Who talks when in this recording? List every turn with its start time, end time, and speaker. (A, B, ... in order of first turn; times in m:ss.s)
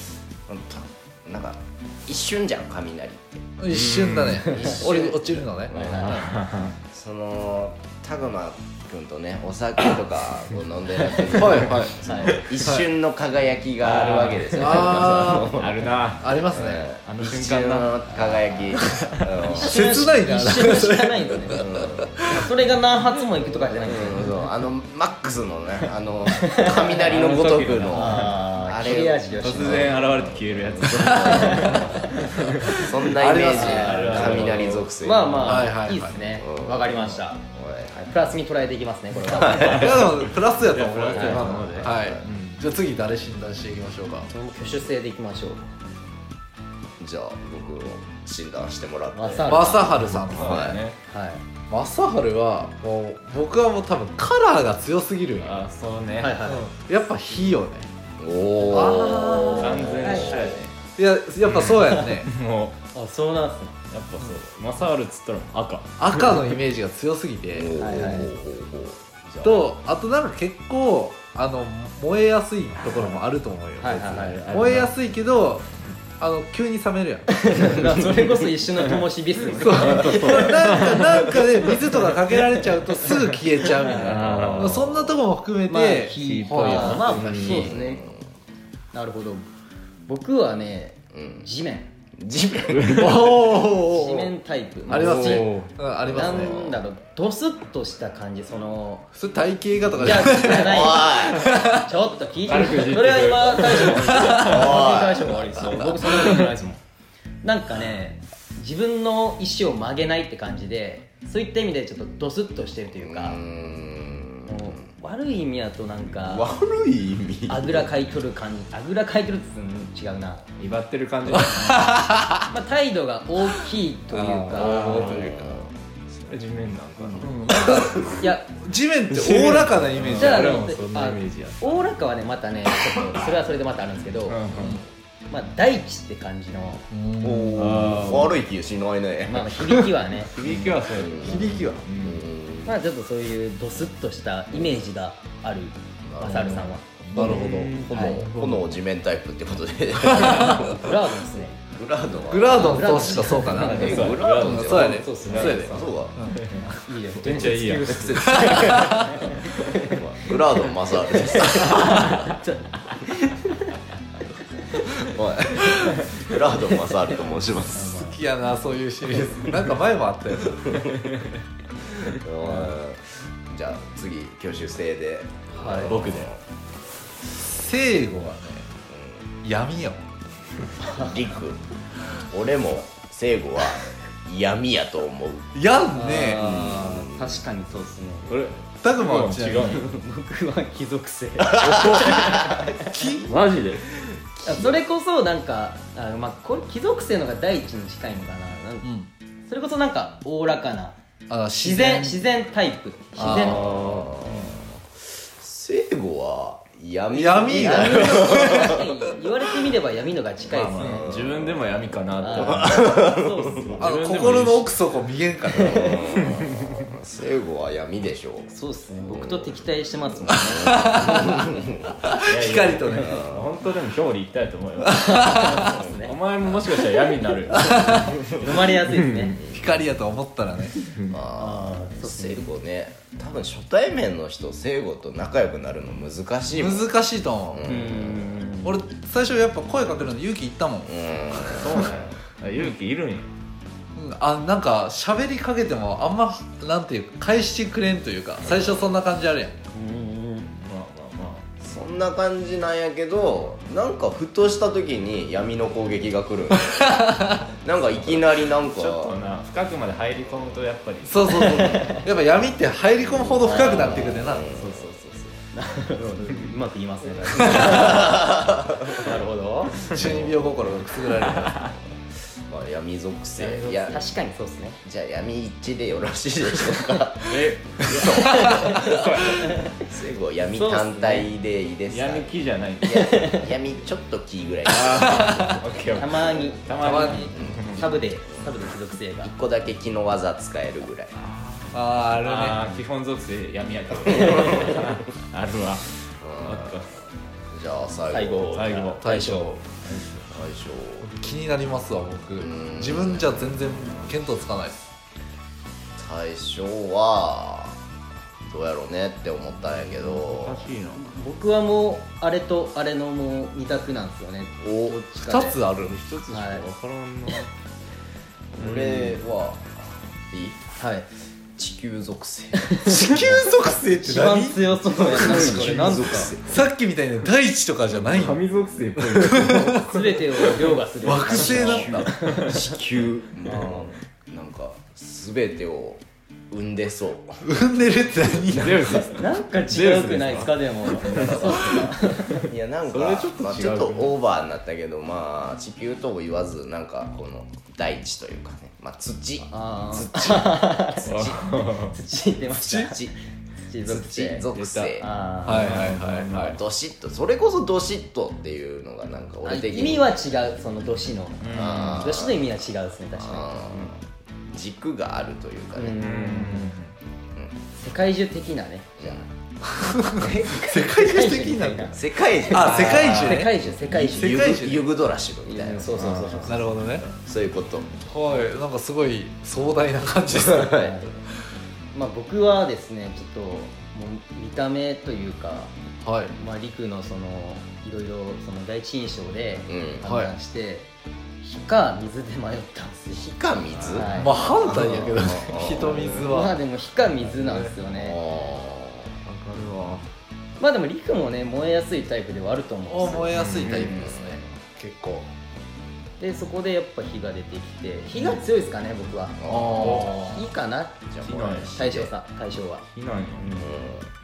0:00.5-0:03.4 A
0:03.6-0:06.3 B
0:03.7-0:04.5 C
0:04.5-0:06.2 A
0:05.7-0:06.3 D
0:06.1-0:06.8 C
0:06.9-0:15.8 A
0:11.3-0:12.0 B
0:12.0-0:12.4 D
0:13.8-0:17.9 C
0:14.5-0:15.6 B
0:16.2-0:16.9 B
0:16.5-0:20.0 A
0:18.1-0:18.7 D
0:19.4-0:21.7 D
0:19.6-0:22.4 B
0:21.5-0:22.2 A
0:22.3-0:24.3 D
0:23.8-0:32.1 A
0:26.5-0:26.7 D
0:27.0-0:28.5 C
0:27.9-0:30.0 D
0:29.4-0:32.8 C
0:31.2-0:32.2 D
0:32.7-0:35.7 A
0:32.7-0:34.2 B
0:33.5-0:35.6 C
0:33.5-0:37.4 D
0:35.4-0:36.2 B
0:36.3-0:38.0 A
0:37.9-0:40.0 D
0:39.3-0:39.9 A
0:39.5-0:40.0 C
0:39.7-0:44.3 B
0:40.6-0:42.6 C
0:41.1-0:41.8 D
0:41.8-0:42.3 A
0:44.3-0:45.6 D
0:47.0-0:50.8 A
0:49.1-0:50.1 D
0:49.5-0:50.6 B
0:50.1-0:51.0 C
0:51.1-0:51.4 D
0:51.7-0:55.6 B
0:55.4-0:56.4 C
0:56.2-0:56.7 D
0:56.4-0:57.9 B
0:58.2-1:00.6 A
0:58.7-0:59.7 B
0:58.7-1:00.6 D
0:59.6-1:00.8 C
1:01.0-1:02.3 B
1:01.4-1:02.8 C
1:01.8-1:02.2 D
1:02.9-1:03.8 D
1:03.9-1:06.2 C
1:06.0-1:08.0 B
1:07.5-1:09.7 A
1:07.8-1:08.3 D
1:09.4-1:15.6 B
1:13.8-1:14.4 D
1:14.1-1:15.0 C
1:16.2-1:17.8 B
1:17.4-1:20.9 D
1:19.5-1:27.7 B
1:19.5-1:22.4 C
1:23.0-1:25.1 C
1:23.8-1:24.7 D
1:25.7-1:28.0 D
1:26.2-1:27.8 C
1:27.2-1:28.2 A
1:28.9-1:29.4 D
1:30.0-1:31.9 D
1:31.1-1:31.5 A
1:32.2-1:33.3 A
1:32.7-1:33.4 C
1:32.9-1:34.3 B
1:33.7-1:35.5 D
1:34.9-1:35.7 C
1:34.9-1:36.6 B
1:36.1-1:36.8 A
1:36.1-1:39.1 D
1:39.1-1:41.8 B
1:40.0-1:46.8 D
1:40.2-1:41.5 A
1:42.5-1:44.7 C
1:43.8-1:44.6 B
1:44.4-1:45.6 A
1:45.4-1:46.1 B
1:46.1-1:46.4 C
1:47.4-1:53.4 D
1:53.0-1:54.8 A
1:54.4-1:56.5 D
1:56.3-1:57.9 A
1:57.5-2:00.4 D
2:00.6-2:01.9 C
2:01.3-2:02.5 B
2:02.5-2:05.2 D
2:04.1-2:05.7 B
2:04.5-2:05.2 C
2:04.9-2:06.3 A
2:06.3-2:08.1 C
2:07.0-2:10.5 B
2:08.2-2:08.5 D
2:09.1-2:11.9 C
2:10.1-2:14.4 D
2:14.2-2:14.8 C
2:14.5-2:14.8 B
2:15.3-2:16.8 D
2:16.9-2:18.1 B
2:17.2-2:19.5 A
2:17.6-2:18.4 C
2:19.3-2:20.3 D
2:20.3-2:22.3 C
2:20.4-2:21.8 B
2:20.9-2:22.7 A
2:22.6-2:26.9 D
2:26.0-2:30.9 A
2:27.1-2:28.7 C
2:27.1-2:27.8 B
2:27.9-2:28.3 D
2:30.2-2:30.7 B
2:30.4-2:31.6 D
2:31.7-2:36.2 A
2:32.3-2:36.4 B
2:32.5-2:34.2 D
2:33.5-2:35.7 C
2:34.7-2:35.9 D
2:36.3-2:36.6 C
2:36.6-2:40.0 D
2:37.2-2:39.7 C
2:37.2-2:38.9 A
2:38.2-2:39.2 B
2:39.8-2:42.2 A
2:41.1-2:43.8 D
2:41.5-2:42.4 C
2:45.0-2:48.0 A
2:47.7-2:48.2 D
2:47.9-2:50.8 B
2:50.6-2:51.2 A
2:52.0-2:56.4 A
2:52.4-2:52.7 D
2:55.5-2:56.0 D
2:55.8-2:56.3 C
2:57.3-2:58.7 B
2:58.9-2:59.3 A
2:59.4-3:00.0 B
3:00.8-3:01.6 A
3:02.2-3:05.5 A
3:05.5-3:06.4 B
3:05.9-3:08.3 D
3:06.3-3:07.4 A
3:08.2-3:09.9 C
3:08.8-3:10.0 B
3:09.8-3:13.0 D
3:11.4-3:13.1 A
3:11.8-3:12.4 C
3:12.9-3:13.3 B
3:13.1-3:13.9 C
3:14.4-3:14.8 A
3:14.4-3:18.9 D
3:18.8-3:19.1 B
3:19.5-3:21.0 D
3:21.3-3:22.2 B
3:21.6-3:23.6 D
3:23.2-3:23.6 B
3:23.2-3:24.6 C
3:23.6-3:24.6 A
3:25.4-3:28.8 A
3:27.1-3:28.9 B
3:27.4-3:31.0 D
3:30.5-3:34.8 C
3:30.8-3:33.4 A
3:32.2-3:33.8 D
3:33.8-3:35.9 B
3:35.5-3:35.9 D
3:35.6-3:39.6 A
3:36.5-3:36.9 C
3:38.5-3:41.5 D
3:40.3-3:42.0 A
3:40.3-3:41.4 B
3:42.0-3:43.2 B
3:42.2-3:48.1 C
3:43.0-3:43.5 A
3:44.9-3:45.5 B
3:45.0-3:46.1 D
3:47.5-3:48.1 B
3:47.8-3:49.4 D
3:48.0-3:48.5 A
3:48.6-3:49.4 C
3:49.4-3:49.8 A
3:49.5-3:50.8 B
3:50.8-3:51.2 C
3:51.1-3:57.0 A
3:51.4-3:52.4 D
3:56.5-3:57.6 B
3:57.5-3:58.5 A
3:57.6-3:58.8 D
3:58.6-4:00.9 B
4:00.8-4:02.0 A
4:01.5-4:03.3 C
4:03.9-4:09.6 B
4:09.7-4:10.5 D
4:10.5-4:11.4 C
4:11.6-4:19.2 A
4:16.8-4:17.5 B
4:18.2-4:21.6 C
4:21.0-4:24.5 B
4:21.3-4:22.1 D
4:23.0-4:25.0 A
4:23.4-4:24.1 D
4:24.5-4:25.3 C
4:25.5-4:28.4 D
4:27.4-4:27.8 C
4:27.5-4:29.2 A
4:28.9-4:29.8 D
4:29.8-4:31.7 B
4:29.9-4:30.3 C
4:30.0-4:30.3 A
4:31.2-4:31.7 C
4:32.5-4:34.0 A
4:33.4-4:34.8 D
4:34.8-4:39.2 A
4:37.3-4:39.7 C
4:38.1-4:38.8 D
4:39.8-4:42.3 A
4:40.6-4:41.3 D
4:41.9-4:43.0 C
4:42.8-4:45.6 A
4:43.0-4:43.5 D
4:44.6-4:47.9 C
4:45.9-4:49.3 D
4:46.8-4:47.4 B
4:47.3-4:48.5 A
4:49.2-4:51.1 A
4:51.1-4:57.0 C
4:51.7-4:52.6 B
4:54.1-4:54.4 A
4:56.2-4:56.8 A
4:57.5-4:58.6 A
4:58.1-4:59.6 D
4:58.5-4:59.0 C
4:59.0-4:59.6 B
4:59.8-5:00.2 C
5:00.3-5:01.1 A
5:01.0-5:04.9 B
5:02.4-5:03.7 A
5:06.0-5:07.8 A
5:08.5-5:10.6 A
5:09.8-5:11.1 C
5:11.0-5:15.6 D
5:14.6-5:15.0 A
5:15.2-5:16.0 B
5:15.7-5:17.5 C
5:16.3-5:16.6 D
5:18.6-5:20.6 A
5:18.6-5:19.2 C
5:20.8-5:21.1 D
5:21.6-5:22.8 A
5:22.7-5:26.3 D
5:22.8-5:29.9 B
5:24.9-5:26.6 A
5:27.9-5:32.6 C
5:29.8-5:32.6 D
5:31.0-5:32.1 B
5:32.5-5:37.4 A
5:37.4-5:38.8 B
5:38.3-5:39.2 A
5:38.5-5:41.9 C
5:39.2-5:42.4 D
5:40.8-5:51.5 A
5:42.9-5:44.1 C
5:49.5-5:51.3 D
5:51.0-5:51.9 C
5:51.9-5:53.0 D
5:52.5-5:53.1 A
5:53.7-5:54.4 D
5:53.8-5:55.1 A
5:54.5-5:56.4 C
5:55.0-5:56.0 D
5:55.4-5:56.6 B
5:56.2-6:00.1 A
5:59.4-6:03.9 D
6:01.4-6:02.2 C
6:01.5-6:02.4 A
6:03.2-6:04.0 A
6:04.5-6:06.0 A
6:05.8-6:06.7 D
6:06.0-6:06.9 C
6:07.8-6:09.3 D
6:09.0-6:09.2 A
6:09.8-6:12.0 B
6:10.2-6:10.8 A
6:10.4-6:14.4 D
6:11.9-6:17.9 A
6:12.5-6:14.8 B
6:15.4-6:16.6 D
6:16.0-6:17.0 C
6:16.5-6:17.1 B
6:18.0-6:20.9 B
6:20.3-6:21.0 A
6:20.7-6:21.2 D
6:21.9-6:25.7 D
6:26.0-6:26.3 B
6:26.3-6:30.9 D
6:29.7-6:30.0 A
6:30.0-6:30.3 B
6:31.4-6:33.3 D
6:33.1-6:36.3 A
6:33.8-6:37.8 B
6:33.9-6:34.5 D
6:36.1-6:38.2 D
6:37.9-6:39.1 A
6:39.2-6:40.0 C
6:40.6-6:43.3 D
6:42.8-6:45.3 B
6:43.3-6:44.0 C
6:43.7-6:44.4 A
6:46.2-6:51.0 D
6:48.1-6:48.4 C
6:49.4-6:50.1 A
6:49.5-6:50.3 B
6:49.8-6:50.4 C
6:51.0-6:52.1 A
6:51.2-6:51.8 C
6:51.7-6:53.8 D
6:52.9-6:53.6 C
6:53.5-6:54.1 A